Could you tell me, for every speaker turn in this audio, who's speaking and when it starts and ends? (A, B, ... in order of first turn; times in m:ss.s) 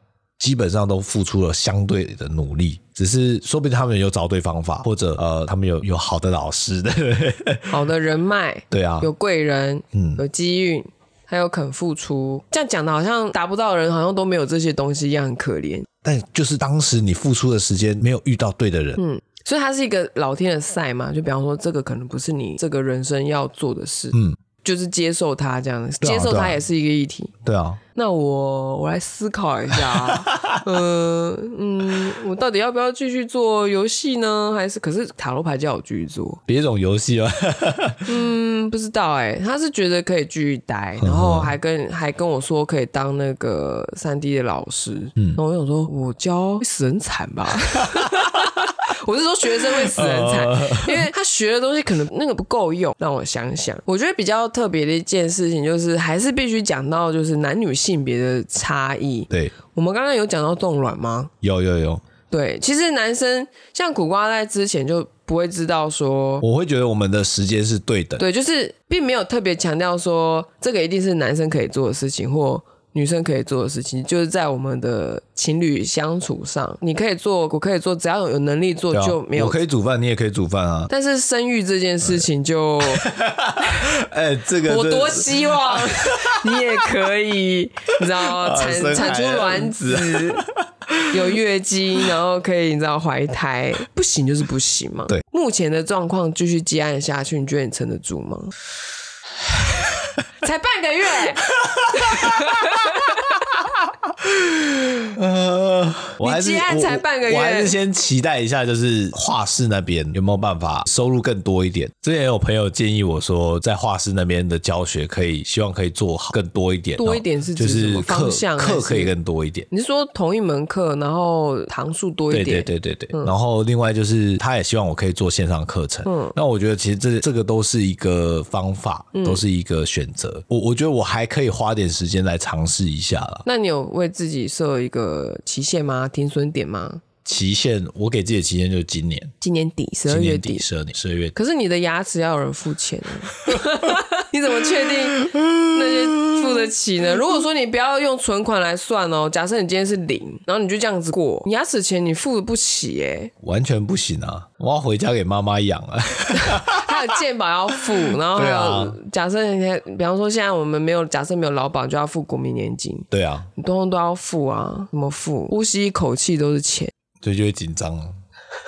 0:00.4-0:07.7 A
0:07.7-0:15.9 B
0:08.7-0:09.1 A
0:09.9-0:10.2 A
0:16.0-0:19.0 A
0:19.0-0:27.3 B
0:26.0-0:26.6 A
0:27.4-0:27.8 A
0:27.9-0:36.4 B
0:29.8-0:30.6 A
0:36.4-0:38.0 A
0:38.0-1:01.3 B
0:41.0-0:41.5 A
0:49.7-0:51.0 A
0:59.3-0:59.6 A
1:01.4-1:02.0 A
1:02.3-1:06.4 B
1:06.4-1:08.2 A
1:08.2-1:19.6 B
1:18.9-1:20.9 A
1:20.9-1:23.1 B
1:22.8-1:26.8 A
1:24.6-1:30.4 B
1:28.2-1:31.2 A
1:31.1-1:38.5 B
1:39.6-1:40.2 A
1:40.4-1:43.4 B
1:41.5-1:43.1 A
1:43.6-1:59.7 A
1:46.2-1:47.7 B
1:57.0-1:59.1 B
1:59.7-2:03.3 B
2:02.3-2:13.4 A
2:06.0-2:06.3 B
2:09.1-2:09.4 B
2:13.4-2:17.0 B
2:17.2-2:19.3 A
2:19.4-2:20.6 B
2:20.1-2:21.3 A
2:21.3-2:33.3 B
2:25.2-2:26.6 A
2:33.4-2:37.0 A
2:36.4-2:46.9 B
2:38.3-2:39.0 A
2:43.1-2:43.5 A
2:47.2-2:48.2 A